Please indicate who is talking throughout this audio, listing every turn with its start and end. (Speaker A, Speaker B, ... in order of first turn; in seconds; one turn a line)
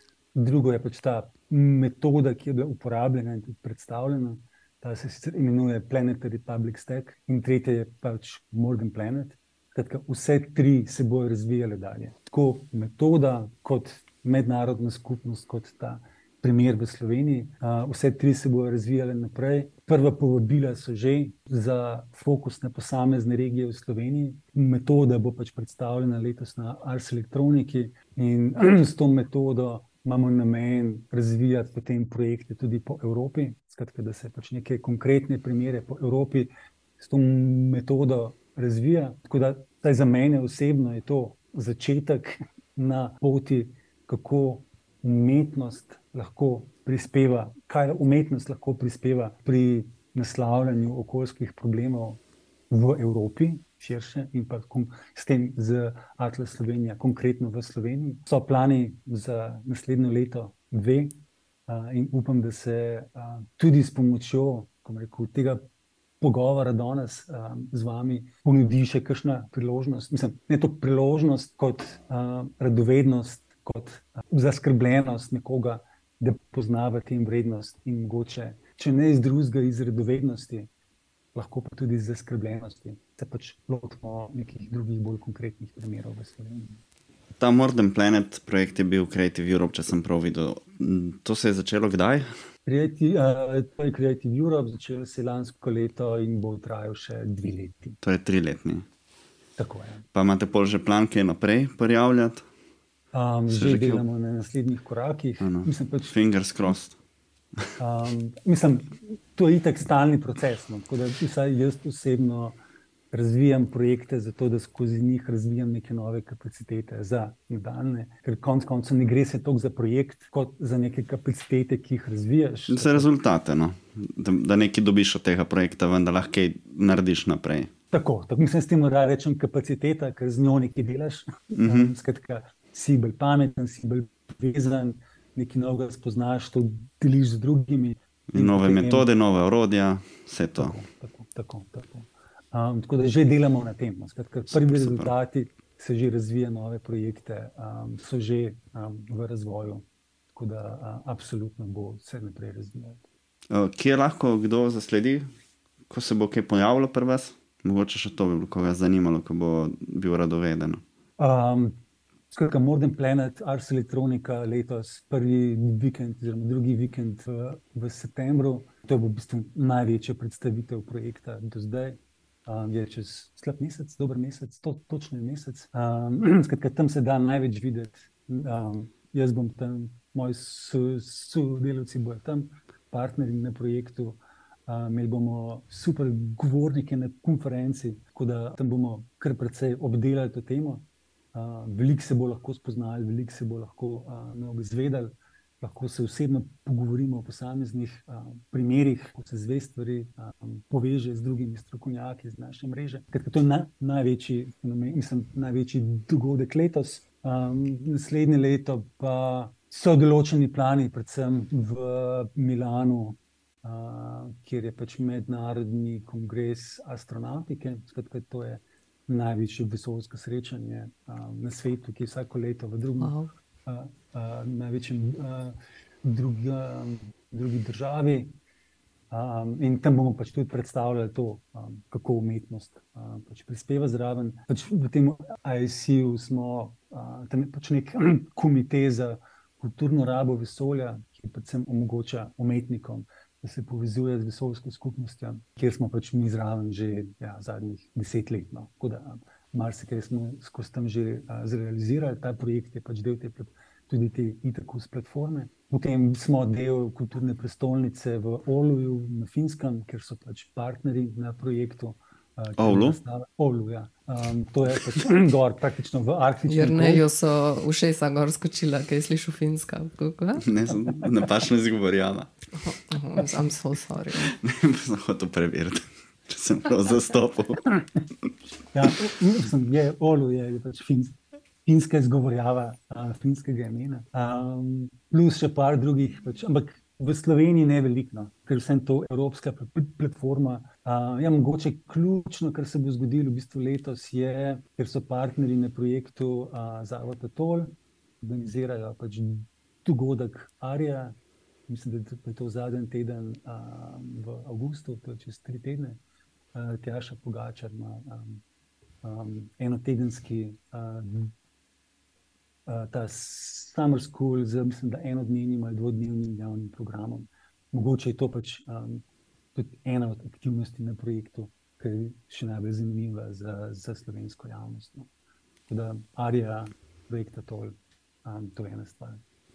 Speaker A: 0.3-65.6
Speaker A: 66.2-80.7
Speaker A: 81.3-86.8
Speaker B: 87.4-92.3
Speaker A: 92.7-98.0
Speaker B: 98.0-98.8
Speaker A: 99.6-100.0
Speaker B: 100.1-102.5
Speaker A: 103.1-106.2
Speaker B: 103.5-104.0
Speaker B: 105.4-107.0
Speaker A: 107.8-112.6
Speaker A: 113.1-123.1
Speaker B: 122.7-127.7
Speaker A: 127.9-139.1
Speaker B: 131.6-131.9
Speaker B: 138.3-140.8
Speaker A: 140.6-153.0
Speaker B: 144.5-145.1
Speaker B: 153.5-155.3
Speaker B: 155.9-160.8
Speaker A: 161.2-161.8
Speaker A: 162.3-223.1
Speaker C: 223.0-223.3
Speaker A: 223.7-228.3
Speaker A: 229.1-267.1
Speaker B: 262.6-263.0
Speaker C: 266.4-270.5
Speaker B: 270.4-272.3
Speaker C: 272.6-274.3
Speaker B: 274.1-277.7
Speaker A: 278.7-281.1
Speaker A: 281.7-301.2
Speaker A: 301.7-306.0
Speaker A: 306.5-308.4
Speaker A: 309.0-311.3
Speaker A: 312.7-319.0
Speaker A: 319.6-325.1
Speaker A: 325.7-329.2